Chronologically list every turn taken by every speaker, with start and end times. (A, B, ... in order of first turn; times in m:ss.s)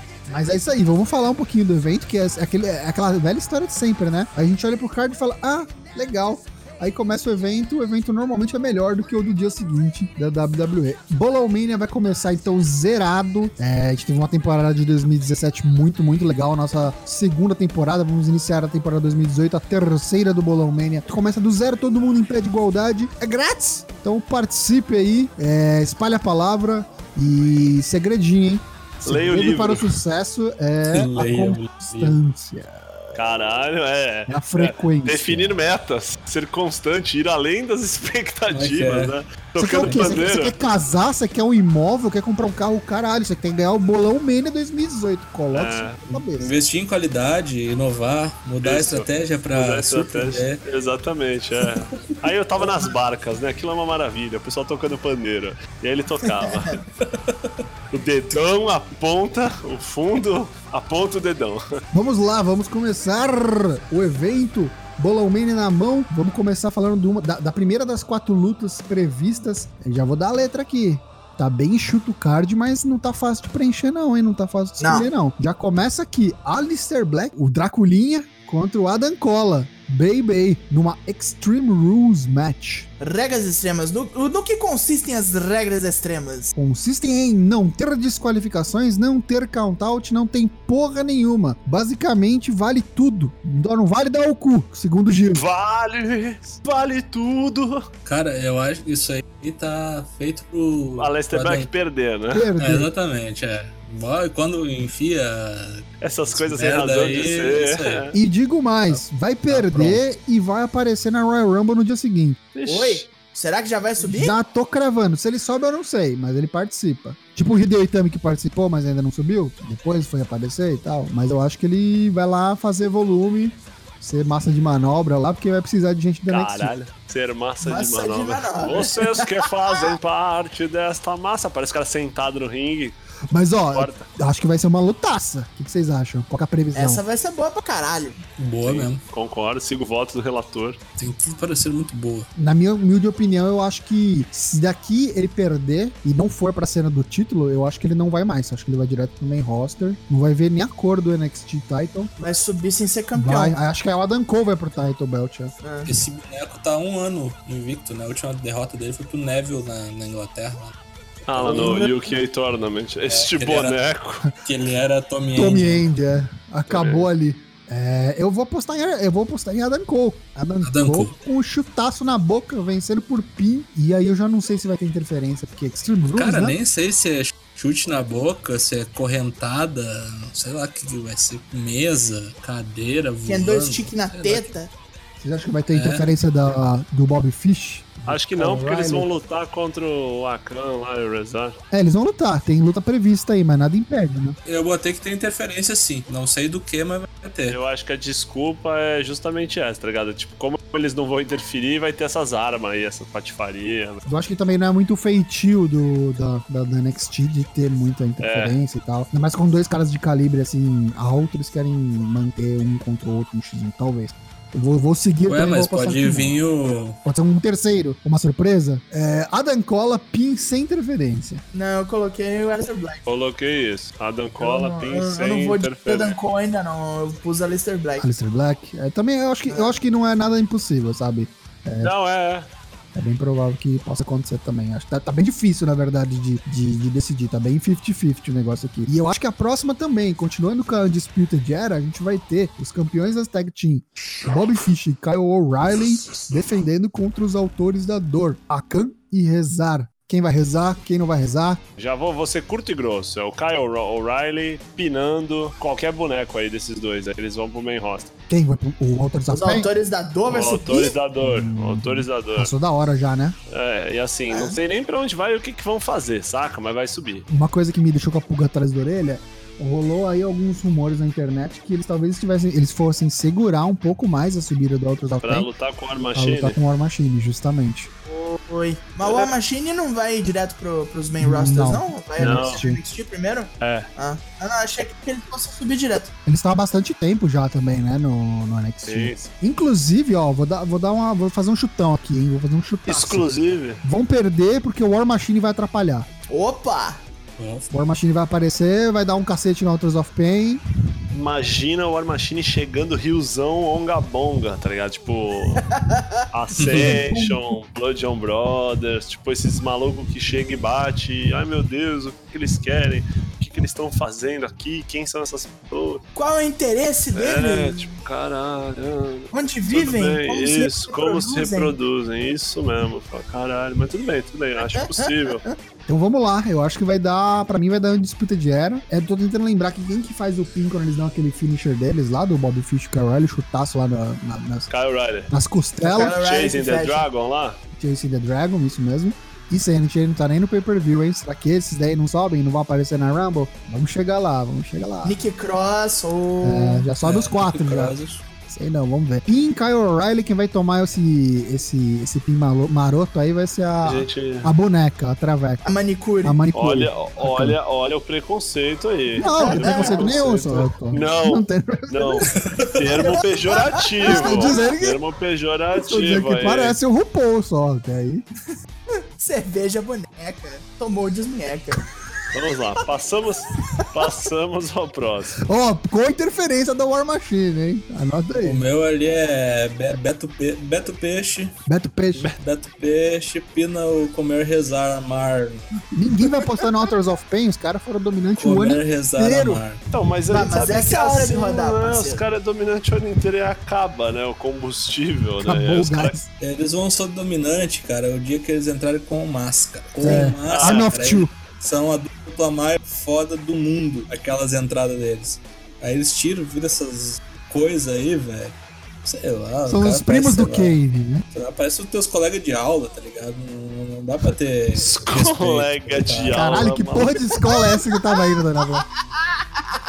0:00.3-0:33.2 A
0:29.0-0:29.9 B
0:30.9-0:32.2 C
0:33.2-0:40.6 B
0:34.3-0:35.6 A
0:38.5-0:39.2 C
0:39.6-0:46.5 A
0:39.8-0:40.2 C
0:45.5-0:46.0 B
0:46.1-0:50.6 C
0:48.6-0:56.8 B
0:51.6-0:52.2 C
0:56.4-0:56.8 D
0:57.0-0:57.5 C
0:57.9-1:01.6 B
1:01.9-1:22.9 A
1:14.8-1:15.1 D
1:23.0-1:26.5 D
1:26.5-1:35.4 A
1:35.3-1:37.8 B
1:38.0-1:41.7 C
1:40.9-1:42.5 B
1:42.3-1:42.9 A
1:42.6-1:48.1 C
1:46.0-1:48.1 B
1:48.1-1:52.4 A
1:48.9-1:50.0 C
1:52.5-1:53.1 B
1:52.6-1:54.3 D
1:54.0-2:06.7 A
2:06.3-2:13.0 B
2:07.6-2:09.9 D
2:13.3-2:17.0 A
2:13.7-2:14.1 B
2:16.7-2:18.2 D
2:18.4-2:19.0 C
2:18.6-2:20.8 B
2:21.0-2:22.3 C
2:22.4-2:32.1 A
2:32.2-2:33.5 D
2:33.2-2:35.5 A
2:35.6-2:35.9 D
2:35.8-2:40.8 C
2:41.3-2:44.2 B
2:41.3-2:41.8 C
2:41.4-2:41.9 A
2:43.1-2:45.8 C
2:45.4-2:56.6 A
2:46.7-2:47.0 B
2:50.6-2:51.1 C
2:56.2-3:04.5 C
3:03.3-3:04.7 D
3:05.2-3:09.1 A
3:05.7-3:06.1 C
3:08.1-3:11.6 B
3:11.7-3:14.4 A
3:14.4-3:17.6 C
3:17.5-3:24.0 B
3:24.0-3:36.4 A
3:28.2-3:28.6 B
3:35.3-3:37.0 C
3:37.0-3:41.4 A
3:41.5-3:43.1 D
3:43.0-3:46.2 B
3:44.4-3:48.1 D
3:48.0-3:51.9 A
3:49.5-3:49.8 D
3:51.8-3:52.5 B
3:52.9-4:11.6 A
4:11.8-4:18.1 B
4:18.3-4:19.7 A
4:19.3-4:21.0 D
4:20.3-4:22.5 B
4:21.2-4:23.4 A
4:23.5-4:27.2 B
4:24.3-4:24.6 D
4:27.3-4:35.5 A
4:35.2-4:36.6 B
4:36.0-4:37.9 A
4:38.0-4:46.1 D
4:39.0-4:39.3 B
4:41.2-4:42.8 A
4:42.2-4:42.6 B
4:43.6-4:43.8 B
4:46.2-4:56.1 A
4:48.8-4:49.3 B
4:52.8-4:53.8 B
4:56.3-4:57.0 D
4:57.4-4:57.7 C
4:57.7-5:00.6 A
5:01.1-5:05.6 B
5:05.6-5:06.2 D
5:06.3-5:16.0 B
5:06.6-5:07.0 C
5:06.7-5:07.5 A
5:16.1-5:17.9 D
5:17.1-5:25.4 B
5:19.3-5:21.8 D
5:24.6-5:25.6 D
5:25.9-5:34.7 A
5:34.7-5:35.3 B
5:35.3-5:36.2 A
5:35.8-5:37.1 D
5:35.9-5:37.6 B
5:37.8-5:45.2 A
5:45.0-5:46.8 D
5:46.4-5:47.9 A
5:47.0-5:48.2 C
5:48.5-5:55.6 A
5:53.8-5:54.5 B
5:55.6-5:56.4 D
5:56.2-5:57.6 A
5:56.5-6:06.8 B
5:59.1-6:00.1 D
5:59.2-6:02.3 A
6:02.4-6:03.0 C
6:03.0-6:04.6 D
6:04.0-6:05.0 A
6:05.7-6:08.2 A
6:09.2-6:11.8 D
6:12.3-6:15.4 B
6:15.4-6:18.6 A
6:18.4-6:21.6 C
6:21.7-6:22.3 A
6:22.4-6:25.6 C
6:25.9-6:29.6 A
6:28.4-6:29.8 C
6:29.9-6:36.2 B
6:30.3-6:32.2 D
6:35.4-6:36.3 A
6:36.4-6:50.8 C
6:40.0-6:41.3 A
6:40.0-6:40.3 D
6:40.5-6:40.9 B
6:49.7-6:51.2 A
6:51.3-6:56.6 C
6:54.7-6:57.3 B
6:56.3-6:58.8 A
6:57.5-6:57.8 D
6:59.2-6:59.8 D